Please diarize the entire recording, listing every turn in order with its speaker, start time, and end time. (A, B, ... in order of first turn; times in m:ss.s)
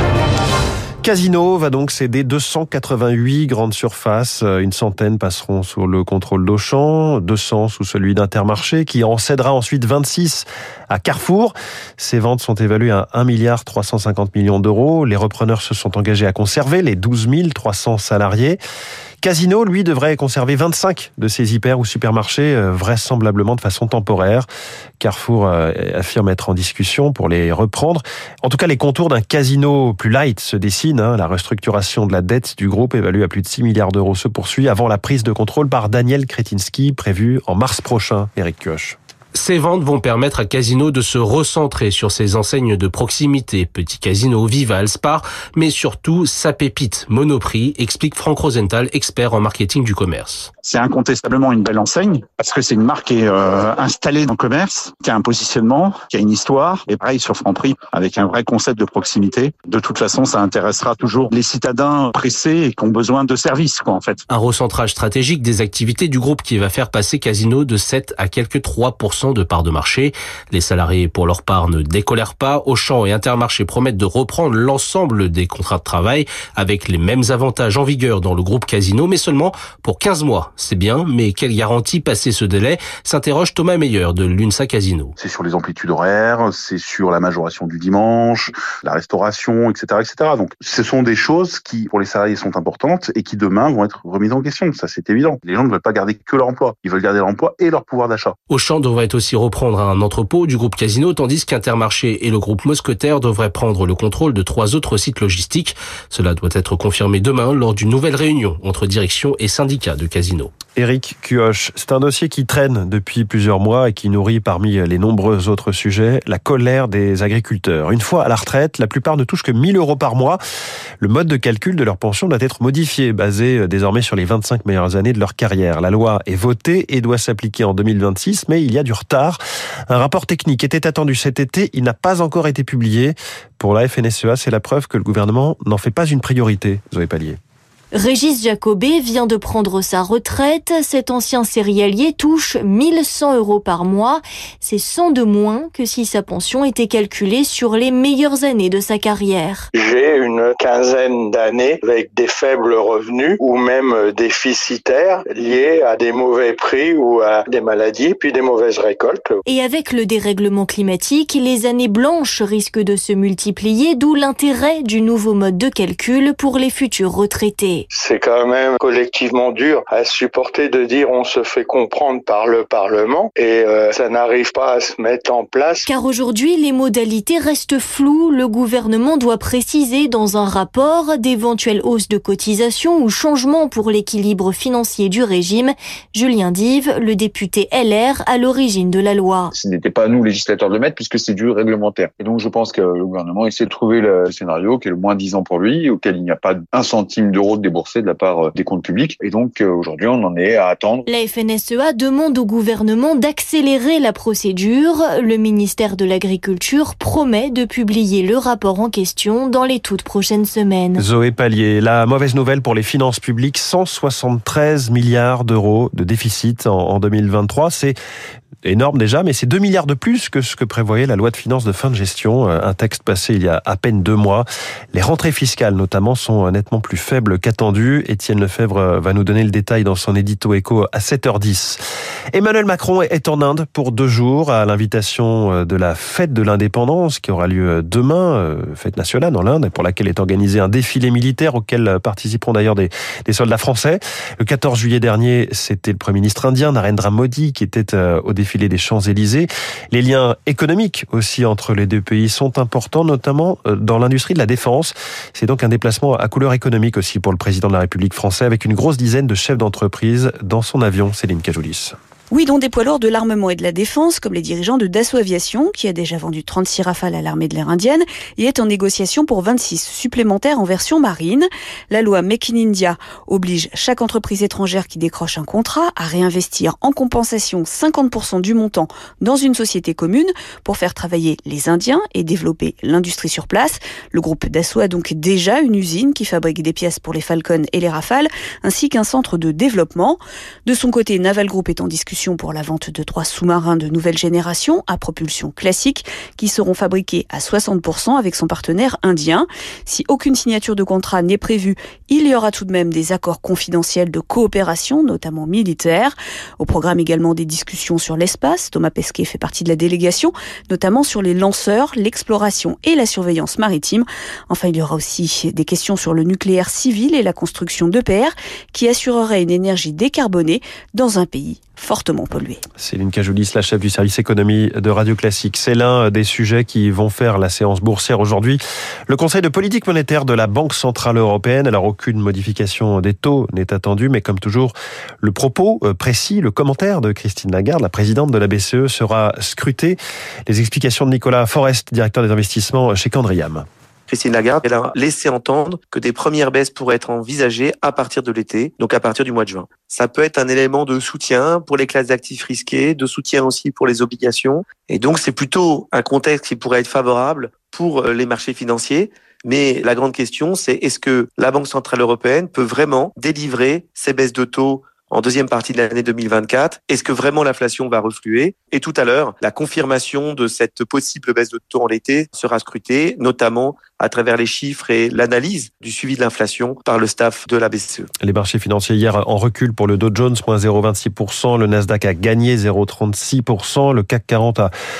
0:01.0-0:18.6 A
0:19.2-0:24.5 A
0:25.0-0:39.0 A
0:39.3-0:50.5 B
0:50.6-1:04.2 C
1:04.3-1:25.1 B
1:25.2-1:38.3 D
1:38.5-1:50.5 B
1:50.8-2:00.4 A
2:01.0-2:17.4 A
2:17.9-2:29.7 E
2:29.7-2:39.4 F
2:39.4-2:47.9 E
2:47.9-2:55.9 F
2:55.8-3:09.5 E
3:09.5-3:21.1 G
3:21.1-3:31.0 E
3:31.0-3:38.0 A
3:38.6-3:51.8 A
3:52.3-4:21.9 A
4:22.3-5:22.6 H
5:22.8-5:43.6 A
5:44.1-6:18.1 I
6:18.2-6:24.7 A